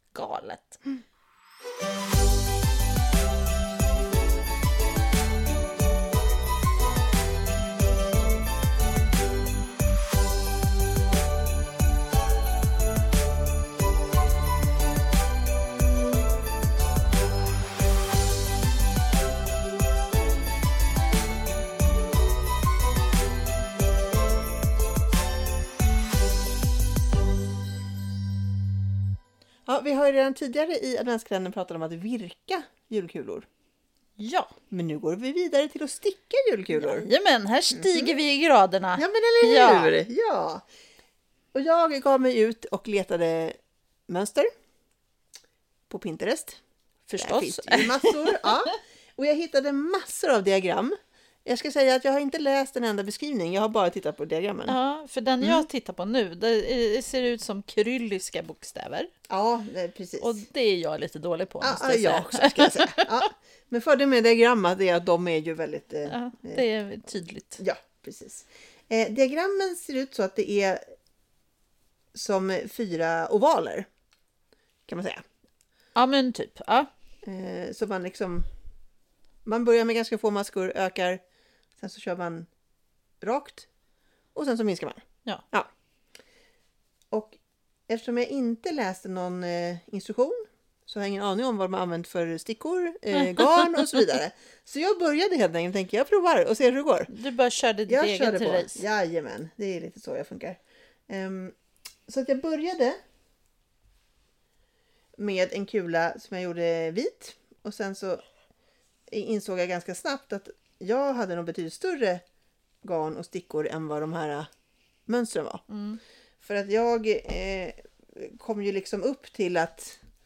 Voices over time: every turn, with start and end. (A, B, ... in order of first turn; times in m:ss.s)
0:00.1-0:00.8 A
0:29.6-0:33.5 B
0:34.2-0:34.5 A
0:34.7-0:37.1 B
0:36.7-0:39.9 A
0:37.7-0:38.1 B
0:39.0-0:40.6 B
0:41.5-0:43.6 B
0:44.1-0:44.5 B
0:45.9-0:54.8 B
0:47.1-0:48.7 A
0:54.7-0:59.1 A
0:55.4-0:55.6 B
0:59.3-1:00.4 B
1:00.2-1:03.2 A
1:01.6-1:06.6 B
1:06.0-1:07.6 A
1:07.6-1:10.8 B
1:12.1-1:13.9 B
1:14.9-1:15.2 B
1:15.9-1:16.9 A
1:17.2-1:18.4 B
1:19.4-1:21.2 B
1:21.8-1:22.5 B
1:23.2-1:23.7 B
1:24.3-1:25.7 B
1:27.1-1:37.1 B
1:33.2-1:33.9 A
1:37.1-1:38.8 A
1:37.9-1:41.5 B
1:42.1-1:43.0 B
1:45.2-1:48.2 B
1:49.1-1:52.2 B
1:52.8-1:54.5 B
1:55.1-1:55.6 B
1:55.7-1:56.0 A
1:56.4-2:00.0 B